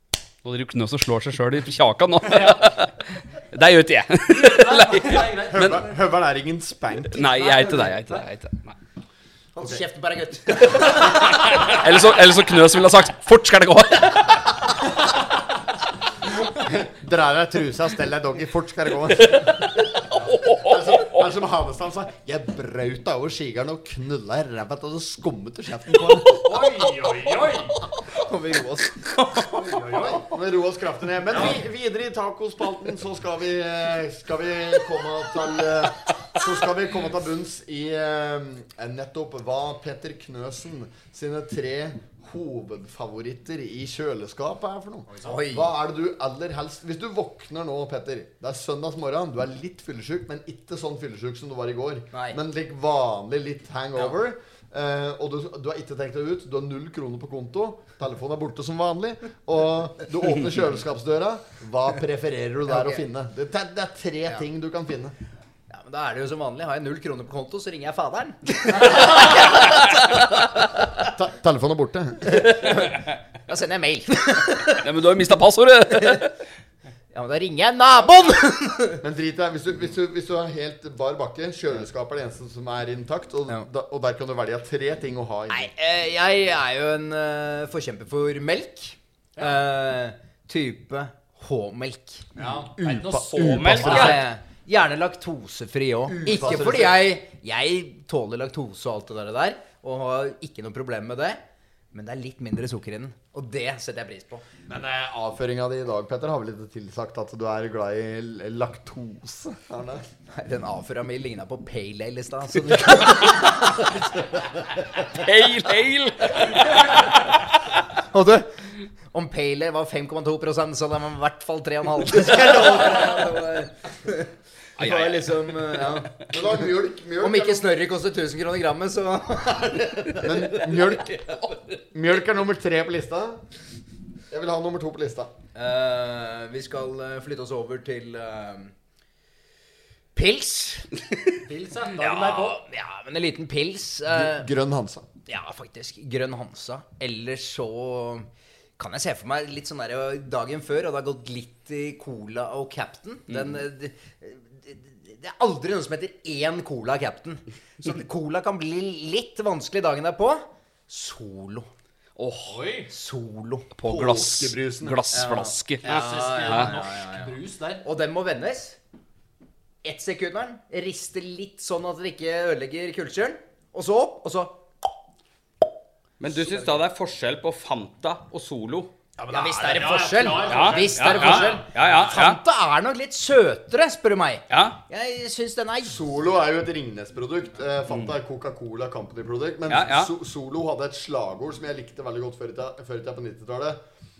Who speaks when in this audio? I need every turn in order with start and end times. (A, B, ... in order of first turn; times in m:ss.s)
0:00.4-0:05.8 A
0:02.2-0:02.6 B
0:04.3-0:06.0 B
0:05.5-0:07.9 C
0:07.1-0:08.8 A
0:09.5-0:11.0 D
0:09.6-0:09.8 C
0:10.8-0:14.5 A
0:16.6-0:26.6 C
0:19.2-0:19.6 A
0:20.4-0:21.1 A
0:26.4-0:27.8 B
0:28.1-0:29.2 D
0:29.4-0:30.3 B
0:30.0-1:05.1 C
0:31.3-0:31.6 B
0:45.1-0:45.4 B
0:45.2-0:45.7 D
0:52.1-0:52.4 D
1:02.7-1:03.0 D
1:05.7-1:09.8 D
1:11.0-1:12.5 C
1:12.3-1:14.8 D
1:14.6-1:16.3 A
1:17.1-1:19.0 D
1:19.0-1:25.7 C
1:25.5-1:32.3 D
1:32.4-1:34.2 B
1:32.4-1:34.2 C
1:33.3-1:34.2 E
1:33.8-1:41.4 D
1:36.1-1:37.1 C
1:41.9-1:44.4 D
1:44.7-1:50.0 C
1:50.3-1:53.9 D
1:55.1-1:57.4 A
1:58.1-1:58.5 D
1:59.1-2:06.1 D
2:02.5-2:02.9 C
2:04.8-2:05.6 A
2:05.6-2:07.7 C
2:07.2-2:10.6 D
2:10.2-2:11.2 C
2:11.9-2:13.4 C
2:14.3-2:15.3 C
2:15.5-2:18.7 D
2:20.1-2:21.0 D
2:21.4-2:22.6 B
2:22.0-2:24.5 D
2:24.1-2:25.0 C
2:25.3-2:41.7 D
2:42.2-2:42.6 A
2:42.4-2:42.9 B
2:42.9-2:43.7 D
2:43.7-2:45.8 A
2:43.8-2:45.0 C
2:45.1-2:48.8 D
2:45.8-2:47.8 B
2:46.4-2:46.7 A
2:49.8-2:54.6 D
2:56.2-2:58.9 E
2:56.4-2:56.7 D
2:59.2-3:02.1 B
2:59.3-3:06.0 D
3:00.4-3:02.4 E
3:04.5-3:04.8 E
3:05.8-3:13.8 C
3:09.7-3:10.1 E